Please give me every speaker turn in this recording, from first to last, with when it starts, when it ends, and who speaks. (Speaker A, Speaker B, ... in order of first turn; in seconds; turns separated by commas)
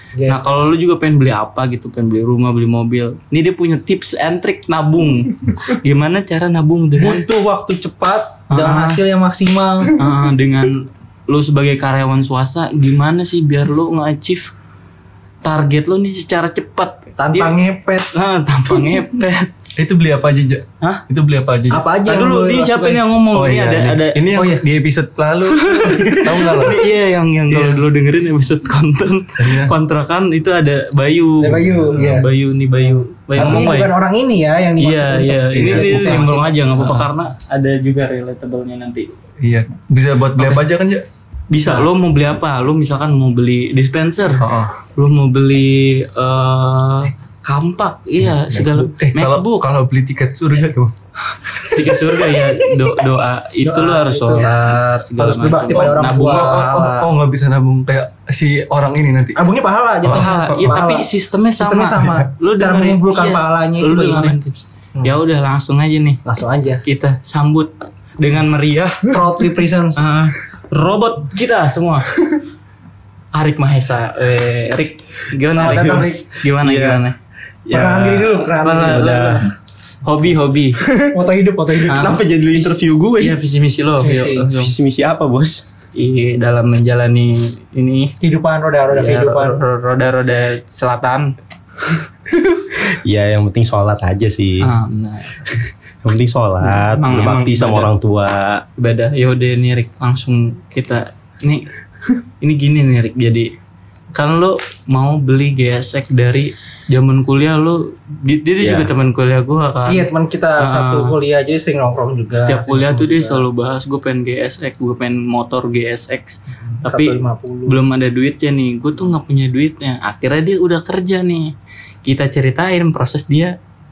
Speaker A: 0.1-0.6, Speaker B: 0.3-7.2, Speaker A: 7.0-10.0, Speaker B: 8.5-9.0, Speaker B: 10.0-14.5, Speaker B: 15.4-17.5, Speaker A: 17.2-18.1, Speaker B: 18.1-19.5, Speaker C: 19.8-21.8, Speaker A: 21.7-23.0, Speaker B: 22.1-24.3, Speaker C: 23.3-26.8, Speaker A: 24.3-24.6, Speaker B: 25.5-33.9, Speaker C: 27.5-27.8, Speaker C: 29.4-29.7, Speaker A: 31.4-32.3, Speaker A: 32.8-36.6, Speaker C: 33.4-33.7, Speaker B: 34.8-39.1, Speaker C: 35.5-37.1, Speaker C: 39.4-41.0, Speaker B: 40.4-40.7, Speaker B: 41.5-49.6, Speaker C: 44.4-44.7, Speaker C: 48.2-50.9, Speaker C: 51.5-52.7, Speaker B: 51.6-57.1, Speaker A: 53.6-56.7, Speaker C: 55.7-59.5, Speaker A: 59.3-64.4, Speaker C: 60.0-60.9, Speaker B: 60.1-66.2, Speaker A: 66.2-66.8, Speaker B: 66.8-69.2, Speaker A: 69.1-70.0, Speaker B: 70.0-72.1, Speaker B: 73.3-77.2, Speaker A: 75.5-76.2, Speaker D: 75.6-77.0, Speaker D: 77.7-79.5, Speaker A: 77.7-79.2, Speaker B: 78.5-79.5, Speaker B: 80.0-80.8, Speaker D: 80.8-81.1, Speaker A: 81.1-82.1, Speaker D: 81.9-83.3, Speaker B: 81.9-84.8, Speaker A: 84.0-84.5, Speaker D: 84.5-85.6, Speaker B: 86.0-88.1, Speaker A: 88.2-89.6, Speaker B: 88.9-91.3, Speaker D: 92.4-94.7, Speaker B: 94.6-95.4, Speaker D: 96.0-98.6, Speaker B: 96.6-97.9, Speaker B: 98.8-101.7, Speaker B: 102.4-103.5, Speaker B: 104.1-111.1, Speaker D: 108.6-108.9, Speaker A: 109.9-113.4, Speaker B: 112.3-121.5, Speaker A: 116.6-117.8, Speaker B: 122.0-123.5